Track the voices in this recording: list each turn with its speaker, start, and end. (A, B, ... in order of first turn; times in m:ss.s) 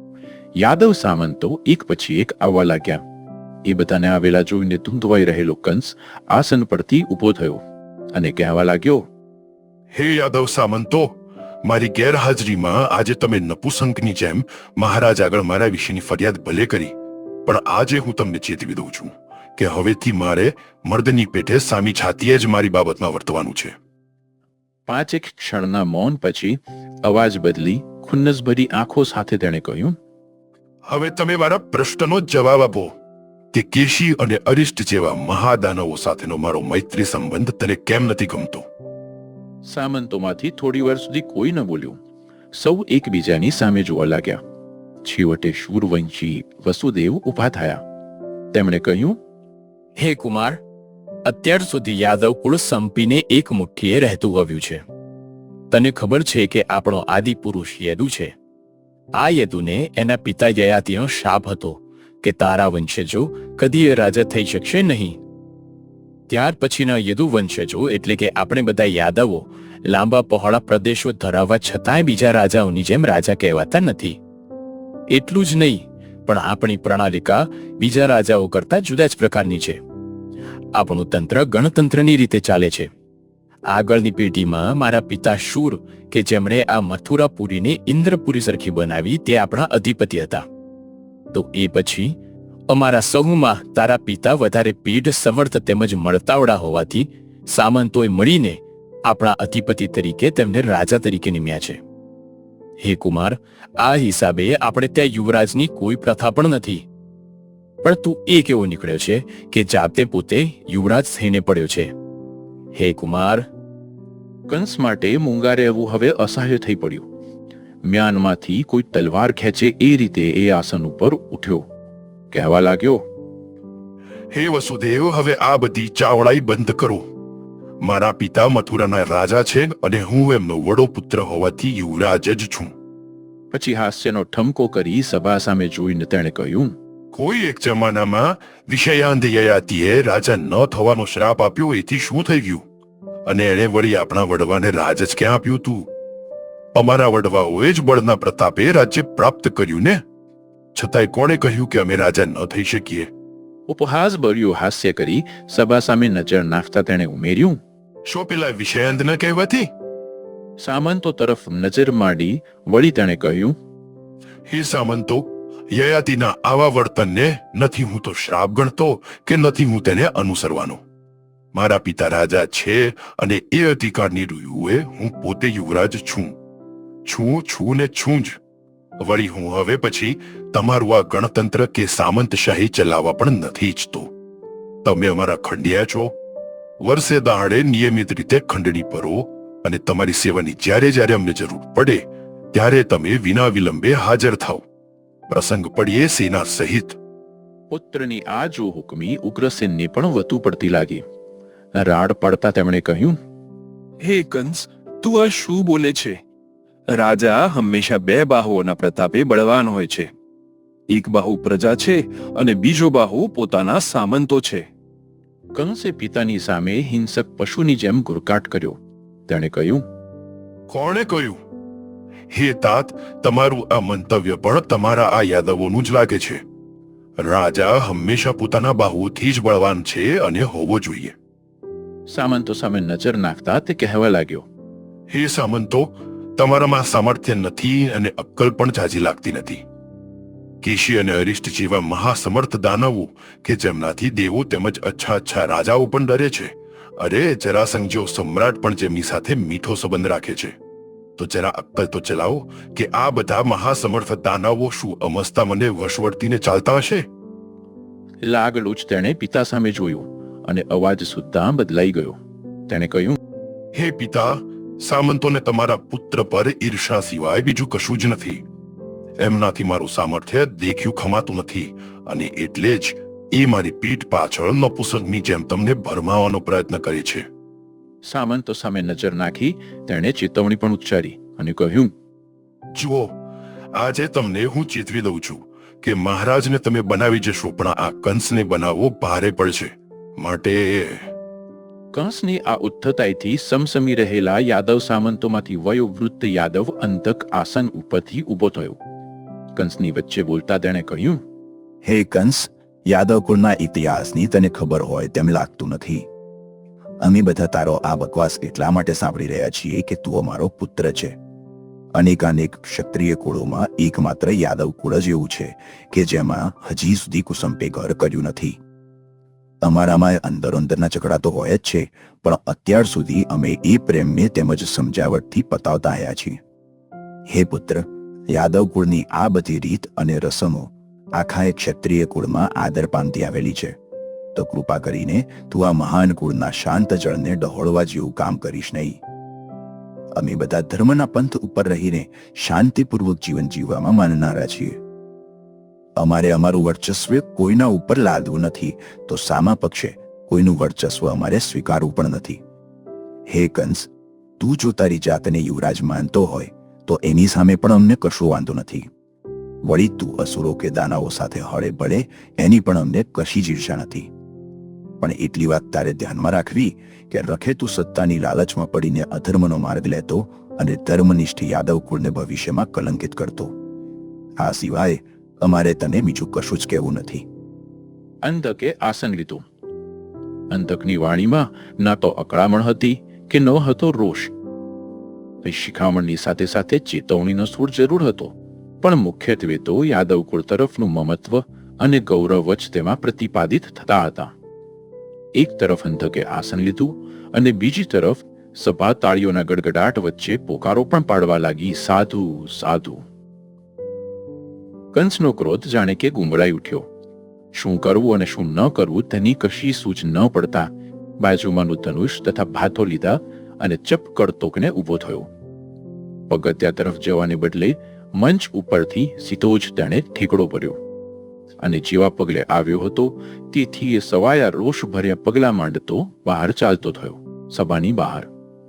0:00.6-0:03.0 A
0:03.6-0:07.6 A
0:08.1-0:09.0 A
0:09.9-0:16.9 B
0:17.4-0:23.7 B
0:24.9-0:30.0 A
0:30.9-0:32.9 B
0:33.5-0:38.6 B
0:39.6-0:42.0 A
0:42.5-0:44.4 A
0:45.0-0:47.8 A
0:48.5-0:49.2 A
0:50.0-0:50.6 C
0:51.2-0:54.8 C
0:55.7-0:58.3 C
0:59.2-1:05.2 C
1:06.3-1:14.2 C
1:15.1-1:19.8 C
1:20.7-1:22.9 C
1:23.7-1:30.4 C
1:31.3-1:32.2 C
1:32.7-1:41.8 C
1:42.8-1:46.8 C
1:47.8-1:51.9 C
1:52.7-1:53.5 C
1:54.5-1:57.0 A
1:57.8-2:01.6 A
2:02.3-2:03.0 A
2:04.3-2:07.0 B
2:07.8-2:12.7 B
2:13.5-2:16.7 A
2:17.1-2:22.6 B
2:23.2-2:25.9 B
2:26.7-2:30.0 B
2:30.7-2:33.1 B
2:33.7-2:37.6 A
2:38.1-2:39.7 B
2:40.6-2:43.6 A
2:44.5-2:50.8 B
2:51.5-2:56.4 B
2:57.0-2:58.4 B
2:59.0-3:04.1 B
3:04.8-3:06.1 B
3:06.8-3:14.6 B
3:15.3-3:17.0 B
3:17.7-3:21.0 A
3:21.7-3:23.2 A
3:24.0-3:26.2 D
3:26.9-3:30.1 D
3:30.9-3:34.7 D
3:35.5-3:39.8 A
3:40.7-3:41.4 B
3:42.3-3:46.4 B
3:47.2-3:51.2 B
3:52.1-3:54.4 A
3:55.1-3:59.6 B
4:00.6-4:10.6 B
4:11.2-4:17.1 B
4:18.2-4:23.2 A
4:23.7-4:28.4 B
4:29.2-4:37.3 B
4:38.0-4:41.9 A
4:42.7-4:43.1 B
4:43.7-4:51.1 B
4:51.9-4:58.8 A
4:59.5-5:01.2 A
5:01.8-5:06.1 E
5:07.0-5:11.2 E
5:11.9-5:18.6 E
5:19.6-5:26.4 E
5:27.3-5:33.8 E
5:34.3-5:39.0 E
5:40.1-5:44.8 E
5:46.0-5:52.4 E
5:53.3-5:58.9 E
5:59.6-6:04.1 E
6:05.0-6:13.5 E
6:14.4-6:17.2 E
6:18.2-6:19.4 A
6:20.5-6:24.3 A
6:25.4-6:34.3 A
6:35.4-6:43.0 A
6:44.9-6:46.9 A
6:47.5-6:55.3 A
6:56.3-7:00.8 A
7:01.6-7:08.3 A